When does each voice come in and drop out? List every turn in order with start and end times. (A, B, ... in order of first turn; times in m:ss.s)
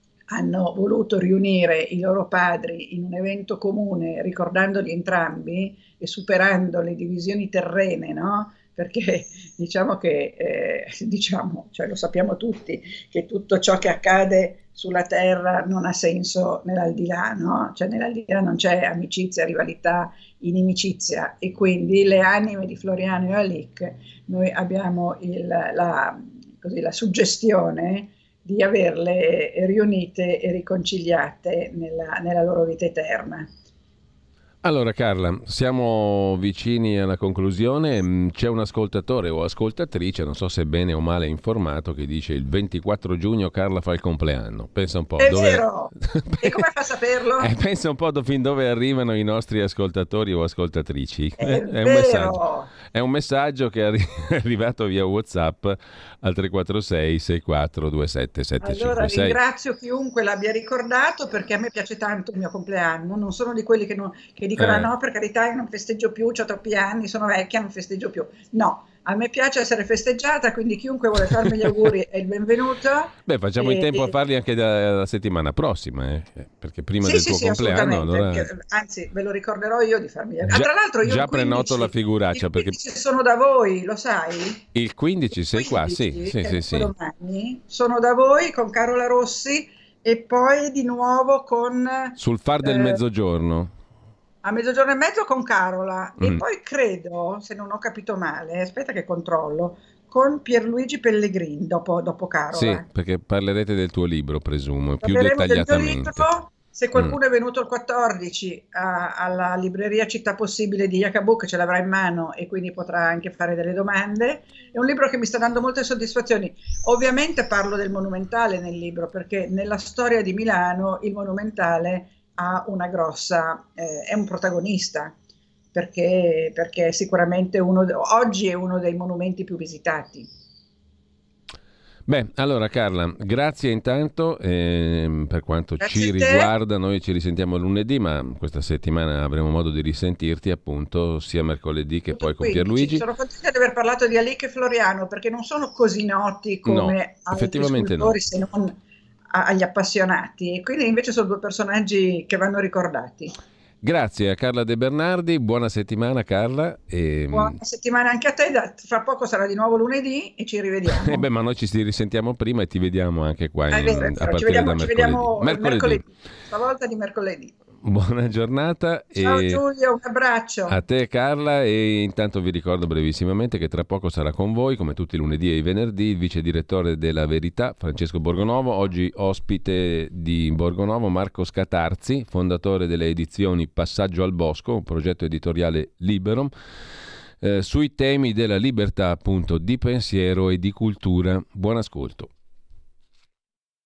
0:00.3-0:33.5 A
0:34.6-0:46.6 B
0:45.2-0:47.5 A
0:47.4-0:59.4 B
0:51.4-0:52.7 A
0:58.6-1:14.2 A
1:04.6-1:04.9 B
1:11.3-1:11.9 B
1:13.2-1:18.5 B
1:17.0-1:24.6 A
1:20.4-1:22.8 B
1:24.7-1:26.9 B
1:25.5-1:33.0 A
1:32.2-1:33.7 B
1:34.4-1:42.8 A
1:42.5-1:46.3 B
1:45.0-2:05.1 A
2:05.7-2:10.3 A
2:12.1-2:23.0 B
2:15.8-2:16.5 A
2:22.1-2:28.8 A
2:26.6-2:28.2 B
2:29.3-2:33.3 A
2:33.8-2:37.6 B
2:37.3-2:41.3 A
2:40.9-2:46.0 B
2:43.7-2:47.5 A
2:47.8-2:49.6 B
2:49.2-2:50.8 A
2:50.7-3:06.5 B
3:07.4-3:12.3 B